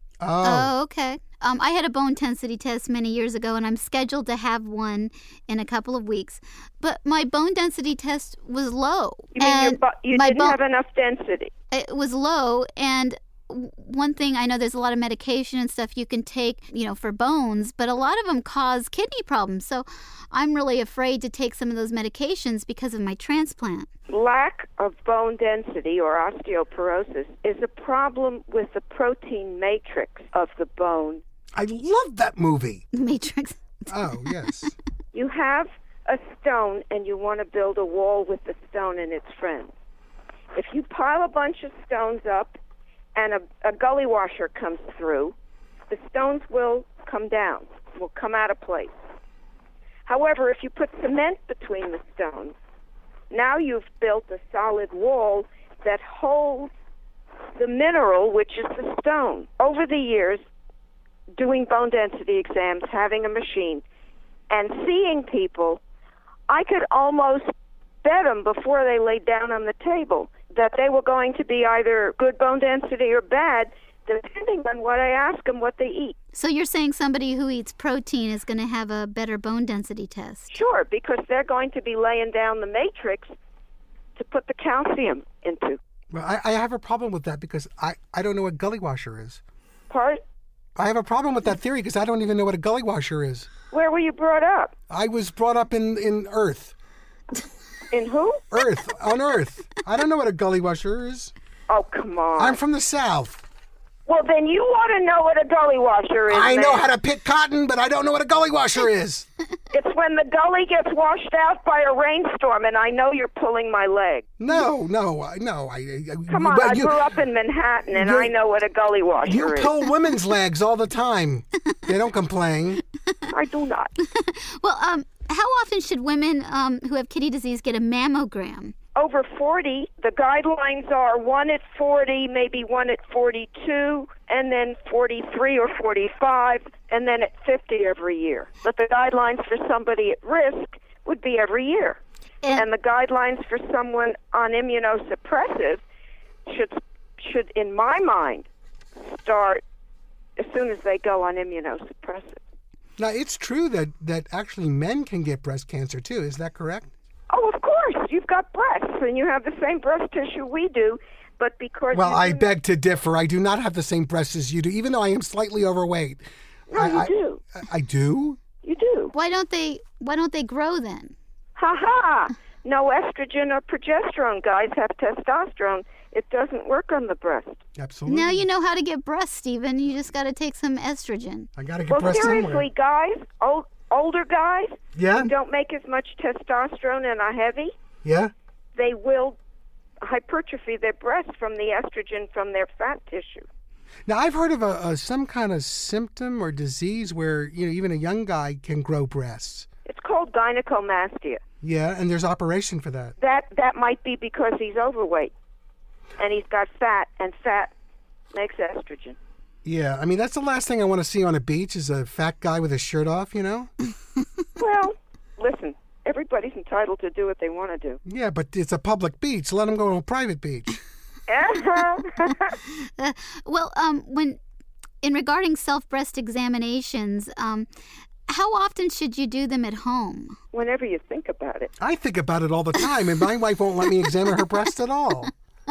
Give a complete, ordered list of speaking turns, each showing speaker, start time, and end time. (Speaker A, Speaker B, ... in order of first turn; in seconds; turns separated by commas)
Speaker A: 0.2-0.7, Speaker B: 0.4-10.6, Speaker C: 9.3-11.5, Speaker B: 11.7-23.9, Speaker C: 24.1-31.2, Speaker A: 31.5-32.8, Speaker B: 32.9-34.7, Speaker A: 33.9-34.7, Speaker C: 35.1-39.7, Speaker C: 40.5-42.6, Speaker C: 43.1-45.3, Speaker C: 45.9-48.9, Speaker C: 50.0-52.5, Speaker C: 53.3-56.7, Speaker C: 57.5-60.4, Speaker C: 61.4-63.8, Speaker C: 64.5-65.8, Speaker C: 66.5-67.5, Speaker C: 68.0-76.2, Speaker B: 76.3-80.5, Speaker C: 80.5-83.3, Speaker C: 84.2-85.8, Speaker A: 86.1-89.4, Speaker C: 89.9-90.2, Speaker A: 90.8-93.5, Speaker C: 93.7-94.7, Speaker A: 94.9-96.7, Speaker C: 97.9-98.4, Speaker A: 98.5-101.3, Speaker C: 101.7-102.6, Speaker A: 102.4-103.4, Speaker C: 104.1-106.8, Speaker A: 106.3-109.3, Speaker C: 109.7-114.3, Speaker A: 114.4-117.1, Speaker C: 116.3-119.7, Speaker A: 117.9-118.3, Speaker A: 119.2-122.8, Speaker C: 123.3-123.9, Speaker B: 124.0-128.7, Speaker C: 128.9-142.0, Speaker C: 142.5-145.8, Speaker C: 146.5-148.5, Speaker C: 149.0-149.6, Speaker C: 150.4-152.4, Speaker A: 153.0-156.9, Speaker C: 157.3-162.5, Speaker A: 161.9-166.2, Speaker C: 166.7-167.4, Speaker A: 166.7-168.4, Speaker C: 168.6-169.1, Speaker B: 169.1-171.1, Speaker C: 171.6-177.6, Speaker A: 177.8-178.4, Speaker B: 178.1-181.5, Speaker A: 181.6-182.7, Speaker C: 181.9-187.7, Speaker A: 184.9-185.3, Speaker A: 188.0-188.3, Speaker C: 188.7-189.4, Speaker C: 190.0-193.4, Speaker A: 194.1-199.7, Speaker C: 199.8-201.4, Speaker A: 201.6-203.1, Speaker C: 203.2-205.3, Speaker C: 206.2-207.7, Speaker C: 208.3-209.2, Speaker A: 209.6-213.7, Speaker C: 214.6-218.0, Speaker A: 218.0-220.8, Speaker C: 221.3-222.6, Speaker B: 223.0-224.4, Speaker B: 225.0-227.7, Speaker B: 228.3-230.4, Speaker C: 230.5-231.7, Speaker A: 231.8-235.3